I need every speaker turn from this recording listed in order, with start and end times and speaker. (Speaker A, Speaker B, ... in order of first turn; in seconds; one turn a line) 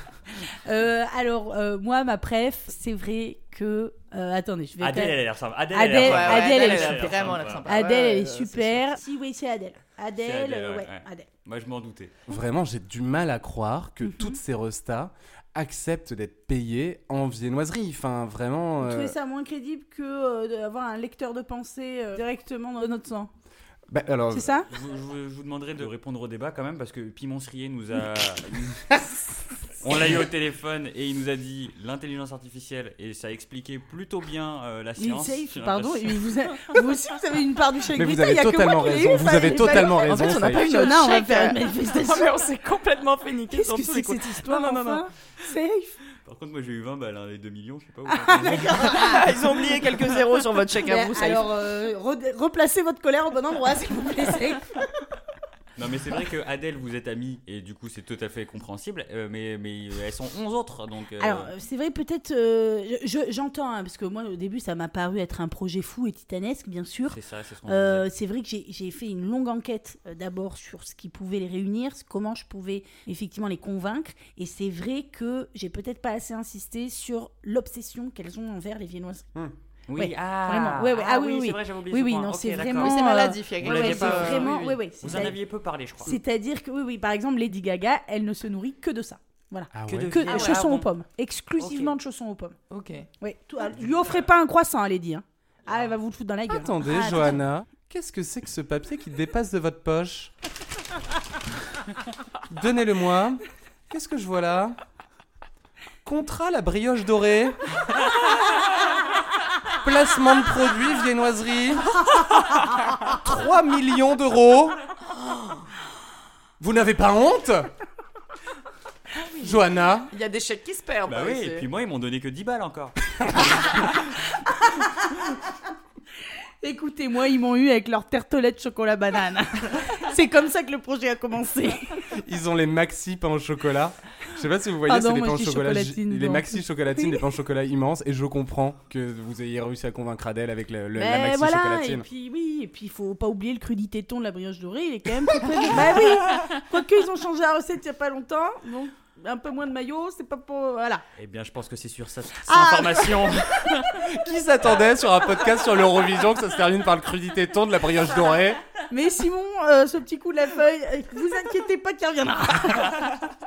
Speaker A: 0.6-5.2
Speaker B: 4.8-7.7
Speaker A: 5.7-11.3
Speaker C: 6.0-9.0
Speaker B: 10.2-12.1
Speaker D: 12.3-19.1
Speaker A: 14.1-14.3
Speaker A: 18.8-23.3
Speaker D: 23.9-24.5
Speaker A: 24.3-24.7
Speaker B: 24.7-28.8
Speaker B: 29.8-36.3
Speaker A: 35.0-42.3
Speaker D: 37.9-40.7
Speaker C: 39.7-45.1
Speaker A: 43.5-46.0
Speaker B: 46.2-49.4
Speaker A: 48.1-49.3
Speaker C: 48.6-51.5
Speaker A: 50.9-54.8
Speaker B: 55.8-61.5
Speaker A: 61.2-79.3
Speaker B: 67.1-68.1
Speaker B: 79.9-86.2
Speaker A: 80.0-85.4
Speaker C: 82.8-84.8
Speaker A: 86.0-92.6
Speaker D: 89.7-90.3
Speaker B: 89.9-90.9
Speaker C: 90.3-90.6
Speaker B: 91.6-92.0
Speaker C: 92.7-93.1
Speaker A: 93.2-97.4
Speaker D: 96.5-100.3
Speaker D: 102.5-104.8
Speaker D: 106.0-107.6
Speaker D: 109.8-112.0
Speaker D: 113.0-114.8
Speaker D: 116.6-117.7
Speaker C: 119.4-121.7
Speaker D: 119.4-120.1
Speaker B: 121.1-123.9
Speaker A: 126.6-132.0
Speaker D: 132.1-142.1
Speaker A: 134.9-137.2
Speaker A: 140.9-151.0
Speaker B: 151.2-154.1
Speaker A: 152.5-153.2
Speaker D: 153.9-158.6
Speaker A: 158.9-163.1